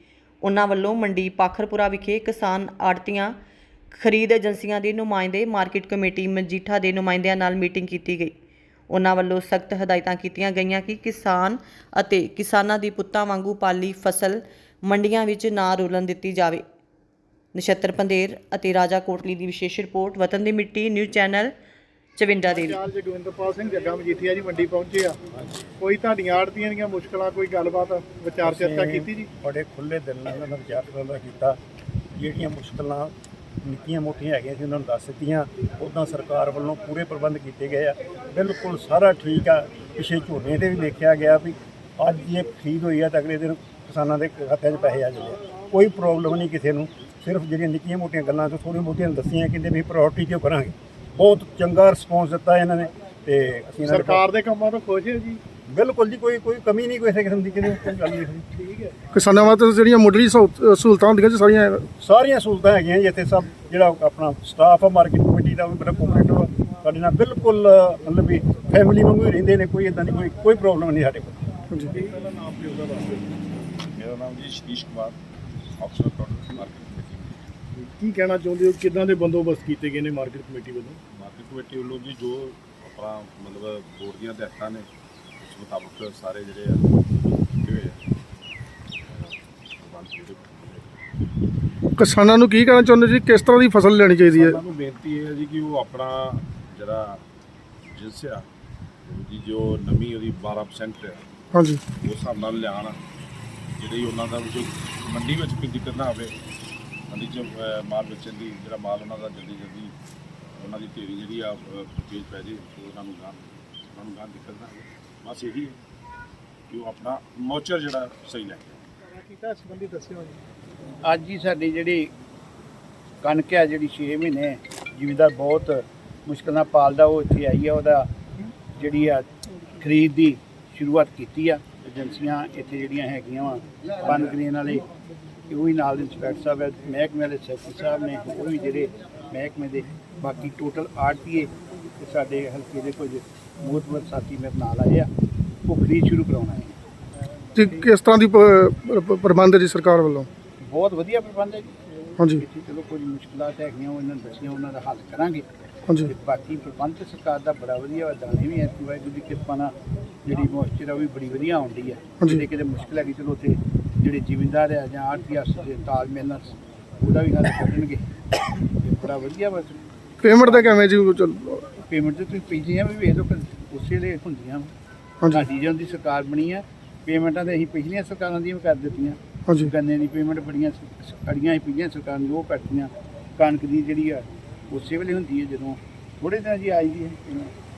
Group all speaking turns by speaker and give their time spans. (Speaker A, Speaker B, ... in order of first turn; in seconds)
Speaker A: 0.4-3.3, 3.9-8.3, 8.9-16.6, 17.5-21.5, 22.2-22.8
Speaker B: 22.5-25.2, 25.8-29.3, 53.9-55.4, 58.5-59.0, 71.9-73.2, 77.8-81.0, 119.1-120.4
Speaker C: 28.4-31.6, 32.1-54.2, 55.6-58.5, 62.0-71.4
Speaker D: 59.1-61.9, 71.7-72.0, 92.0-94.6, 101.5-101.8, 147.5-150.3, 152.2-152.4, 170.2-171.7
Speaker E: 73.9-75.2, 75.8-77.4, 81.1-84.9, 85.4-88.0, 89.0-90.9, 94.3-97.2, 97.9-98.5, 99.0-101.3, 102.0-103.0, 103.8-106.3, 107.1-109.9, 110.6-115.8, 116.7-118.8
Speaker F: 121.0-122.1, 123.2-128.1, 128.7-134.8, 135.5-145.1, 145.6-146.8, 150.6-151.7, 152.3-155.4, 156.0-168.1, 168.6-169.8, 171.8-174.7, 175.3-187.5